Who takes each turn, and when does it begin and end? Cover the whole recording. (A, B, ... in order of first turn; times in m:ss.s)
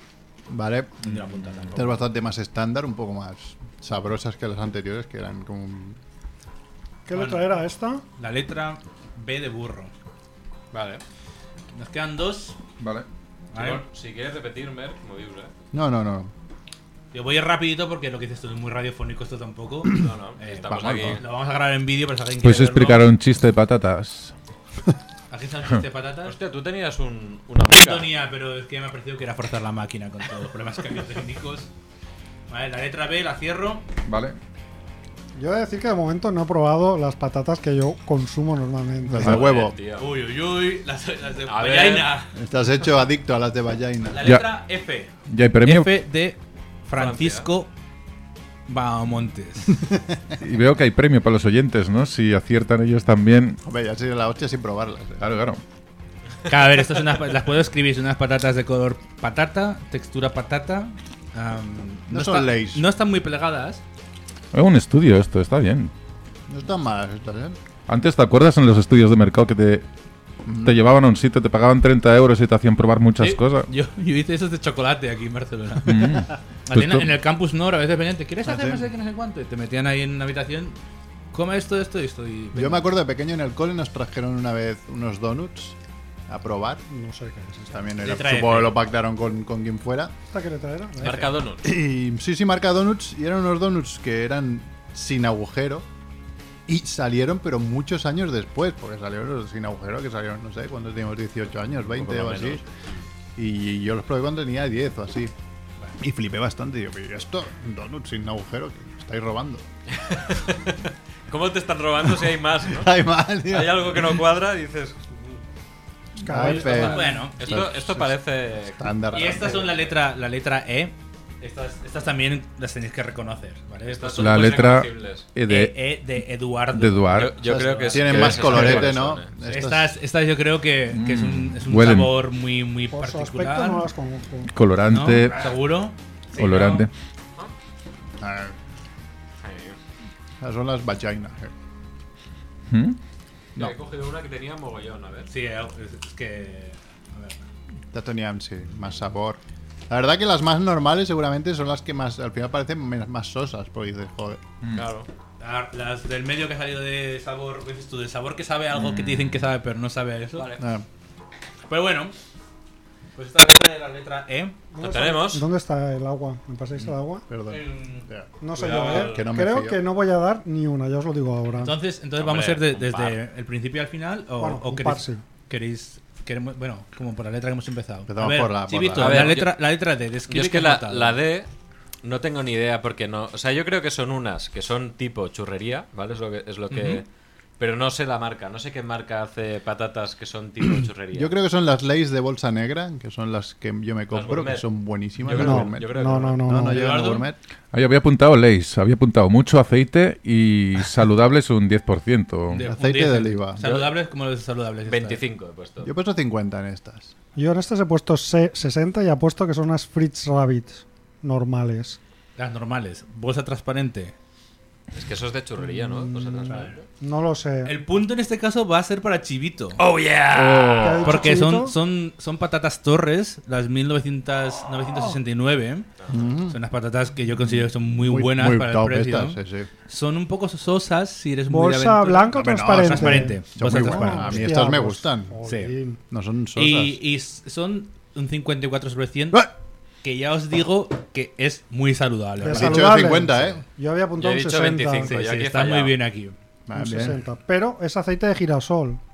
0:00.5-0:01.0 A
0:01.0-0:02.0 B
0:01.1-0:01.8 C
0:01.8-0:06.0 A
0:07.1-0:08.0 D
0:07.1-0:07.6 B
0:08.2-0:09.9 B
0:10.7-0:11.0 E
0:11.7-0:12.6 B
0:12.8-0:13.1 C
0:13.5-0:13.8 B
0:13.6-0:15.5 E
0:15.7-0:16.3 A
0:17.1-0:23.1 B
0:19.9-0:21.2 E
0:20.7-0:21.2 C
0:22.4-0:24.3 C
0:25.3-0:26.4 B
0:26.2-0:28.1 E
0:27.6-0:31.7 B
0:32.5-0:33.8 B
0:34.1-0:34.4 C
0:35.4-0:39.4 D
0:39.1-0:39.8 A
0:39.2-0:40.1 E
0:39.9-0:42.3 B
0:41.5-0:42.1 E
0:42.4-0:44.4 A
0:44.1-0:47.7 B
0:45.3-0:45.9 C
0:46.9-0:47.5 E
0:48.7-0:49.8 B
0:49.9-0:50.4 A
0:50.4-0:53.6 C
0:53.6-0:55.3 A
0:55.2-0:55.6 C
0:56.5-1:03.8 B
1:02.1-1:02.9 A
1:04.5-1:05.9 C
1:06.5-1:07.6 A
1:07.9-1:09.8 C
1:10.5-1:10.8 A
1:10.6-1:13.7 C
1:13.2-1:20.8 B
1:15.9-1:17.1 C
1:18.4-1:18.9 A
1:21.3-1:22.9 B
1:22.5-1:25.8 A
1:26.3-1:26.8 A
1:26.9-1:27.9 D
1:27.7-1:30.1 A
1:28.0-1:28.8 B
1:30.3-1:31.3 D
1:31.0-1:31.6 E
1:31.6-1:35.9 A
1:36.7-1:42.6 A
1:41.9-1:43.0 E
1:43.4-1:45.3 A
1:46.0-1:49.7 A
1:49.9-1:52.9 E
1:52.7-1:54.2 A
1:53.5-1:55.0 E
1:56.2-1:57.2 D
1:56.2-1:58.1 A
1:56.4-1:57.7 B
1:57.4-1:59.8 E
1:58.8-1:59.7 A
1:59.1-2:04.7 B
2:03.8-2:05.3 E
2:04.2-2:05.8 C
2:05.5-2:13.9 B
2:06.7-2:07.4 C
2:07.1-2:09.3 E
2:07.9-2:10.0 A
2:10.9-2:12.2 C
2:12.9-2:14.5 D
2:14.5-2:15.5 C
2:14.9-2:16.9 B
2:16.4-2:16.9 C
2:18.2-2:18.6 A
2:19.4-2:19.8 E
2:20.4-2:21.5 A
2:22.7-2:23.0 C
2:23.6-2:25.3 E
2:25.3-2:27.5 B
2:27.9-2:34.4 A
2:34.6-2:34.9 C
2:34.7-2:35.1 E
2:35.4-2:40.6 B
2:40.4-2:40.6 E
2:40.6-2:40.8 A
2:41.7-2:42.1 B
2:43.2-2:44.6 B
2:44.7-2:47.2 D
2:44.8-2:45.5 E
2:47.3-2:49.8 A
2:47.5-2:49.2 B
2:48.4-2:51.8 D
2:48.7-2:49.2 E
2:51.6-3:01.2 B
2:52.2-2:53.2 E
2:54.4-2:55.2 D
2:58.1-2:59.4 A
2:59.0-2:59.5 E
3:00.3-3:01.5 E
3:02.0-3:07.0 E
3:06.7-3:07.0 B
3:07.6-3:11.3 E
3:11.1-3:17.4 A
3:14.1-3:14.7 E
3:15.2-3:16.4 E
3:15.3-3:15.6 B
3:15.3-3:16.8 D
3:16.7-3:17.3 B
3:17.7-3:22.7 C
3:22.5-3:25.2 B
3:22.6-3:23.6 A
3:23.6-3:24.0 E
3:24.8-3:25.9 E
3:25.8-3:27.1 A
3:27.4-3:32.0 D
3:32.4-3:34.1 B
3:34.9-3:36.8 E
3:35.7-3:37.8 D
3:36.5-3:36.8 B
3:37.6-3:39.8 B
3:39.8-3:41.3 E
3:40.4-3:40.9 C
3:40.8-3:41.8 D
3:41.0-3:45.9 B
3:46.1-3:46.6 A
3:46.5-3:54.6 B
3:47.9-3:49.7 A
3:51.5-3:56.0 D
3:52.4-3:55.3 A
3:55.4-3:55.8 B
3:56.1-3:57.0 A
3:56.6-3:59.5 B
4:00.0-4:03.2 B
4:02.4-4:05.2 D
4:02.4-4:03.6 A
4:04.2-4:06.0 E
4:05.0-4:06.4 B
4:06.7-4:07.2 A
4:06.7-4:09.0 D